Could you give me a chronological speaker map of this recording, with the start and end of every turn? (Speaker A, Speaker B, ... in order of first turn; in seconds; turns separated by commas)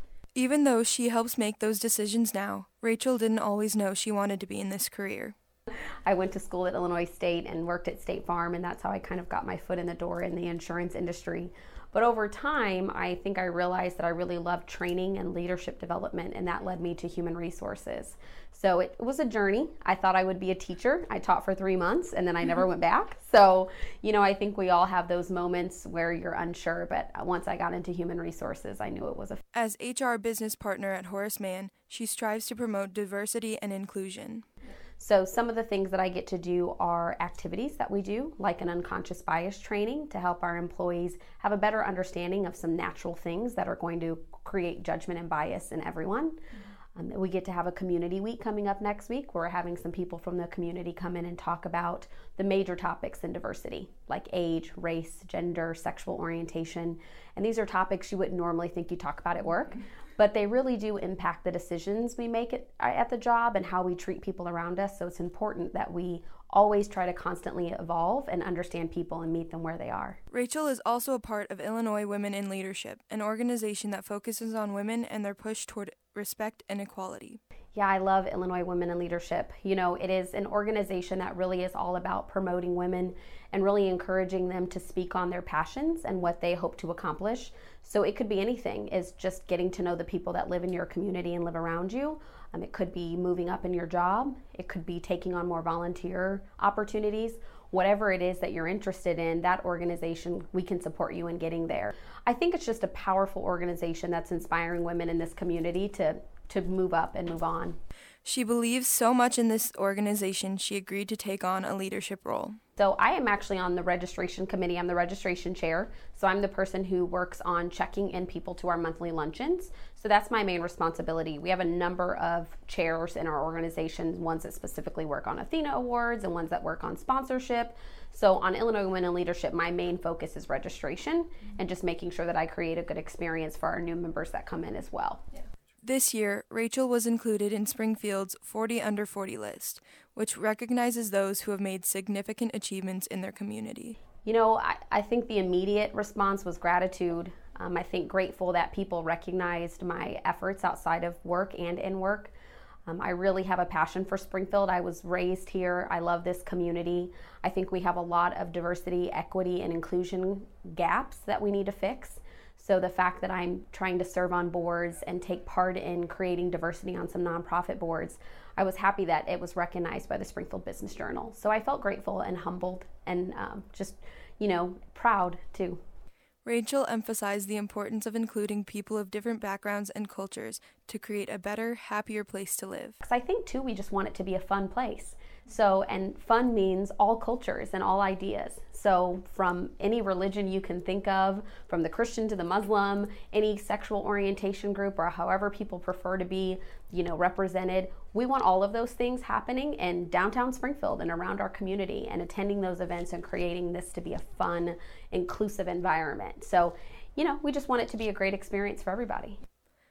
Speaker A: 0.3-5.3, Speaker B: 6.1-29.4, Speaker A: 29.5-34.5, Speaker B: 35.0-46.4, Speaker B: 47.0-70.2, Speaker A: 70.3-77.4, Speaker B: 77.8-107.8, Speaker A: 108.2-112.6, Speaker B: 112.8-135.2, Speaker A: 135.8-144.0, Speaker B: 144.2-152.3, Speaker B: 152.9-175.8, Speaker A: 176.4-183.0, Speaker B: 183.0-209.4